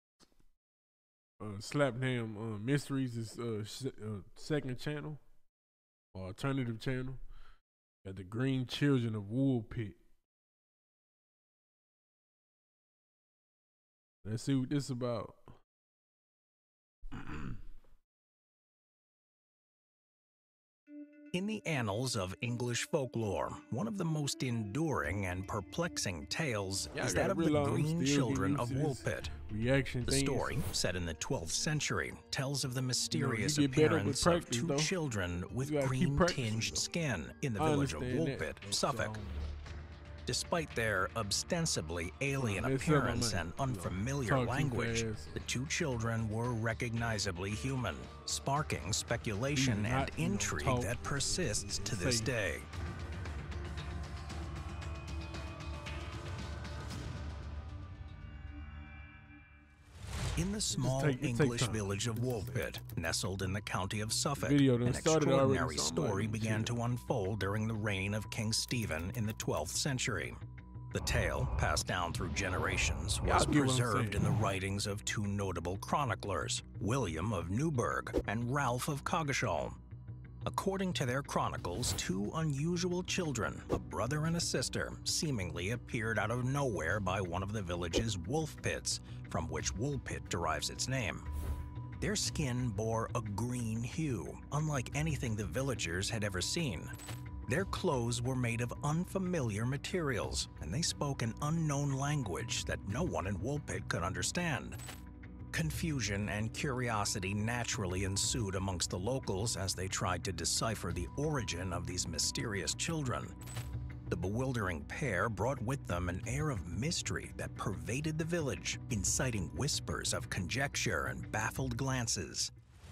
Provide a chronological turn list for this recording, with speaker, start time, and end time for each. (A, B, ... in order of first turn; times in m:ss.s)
0:01.4-0:05.2 A
0:06.1-0:07.2 A
0:08.0-0:10.0 A
0:14.2-0:15.5 A
0:17.1-0:17.5 A
0:21.3-0:29.3 B
0:26.9-0:30.6 A
0:30.1-0:39.1 B
0:33.1-0:35.0 A
0:35.6-0:36.9 A
0:37.6-0:39.6 A
0:40.2-0:52.7 B
0:42.4-0:45.5 A
0:49.5-0:52.3 A
1:00.4-1:10.4 B
1:00.8-1:02.7 A
1:04.4-1:06.8 A
1:10.9-1:19.8 B
1:13.2-1:14.3 A
1:20.4-1:31.3 B
1:32.0-1:36.9 B
1:37.5-1:44.8 B
1:45.5-1:53.3 B
1:54.1-2:02.5 B